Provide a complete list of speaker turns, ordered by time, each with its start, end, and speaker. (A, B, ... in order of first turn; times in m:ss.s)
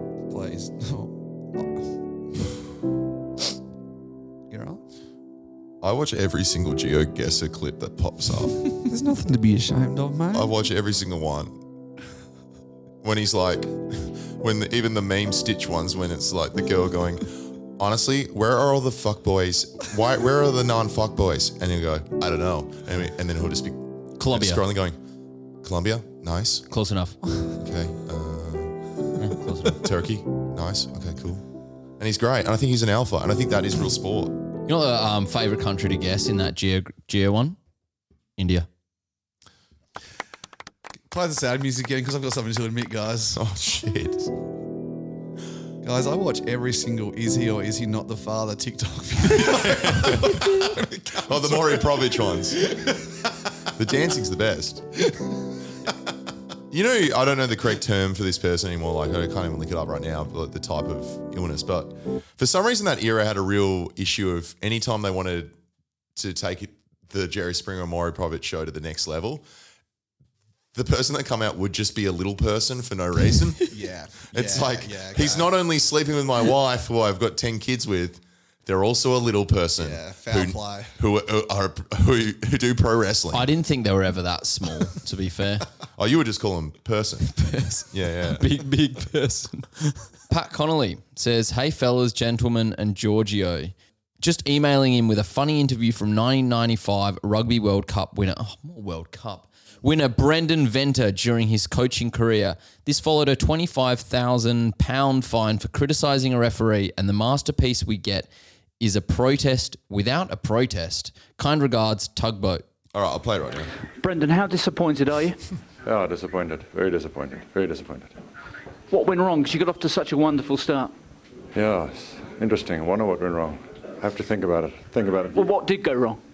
0:00.2-0:01.9 A
0:04.5-0:04.8 A
0:05.8-0:08.7 B
0:08.8-0:10.5 A
0:10.3-0:11.6 B
0:13.0-0:25.0 B
0:24.2-0:24.6 C
0:25.6-0:26.6 B
0:26.7-0:27.2 C
0:27.6-0:28.8 B
0:29.2-0:29.8 C
0:29.6-0:31.4 B
0:32.0-0:34.4 B
0:34.6-0:37.6 C
0:38.4-0:38.7 C
0:41.1-0:43.4 A
0:43.4-0:44.3 B
0:45.8-0:52.0 A
0:49.3-0:52.7 B
0:53.7-0:54.9 B
0:56.7-1:05.5 B
1:06.2-1:09.4 B
1:10.7-1:13.7 B
1:13.7-1:15.5 A
1:14.3-1:23.4 B
1:19.8-1:21.0 A
1:23.3-1:25.7 C
1:25.9-1:27.4 B
1:27.4-1:48.3 C
1:27.9-1:28.4 B
1:48.8-1:52.6 C
1:52.9-1:53.7 B
1:54.0-1:55.4 D
1:55.8-1:58.1 E
1:58.9-2:00.9 D
2:01.5-2:05.5 E
2:05.3-2:06.2 D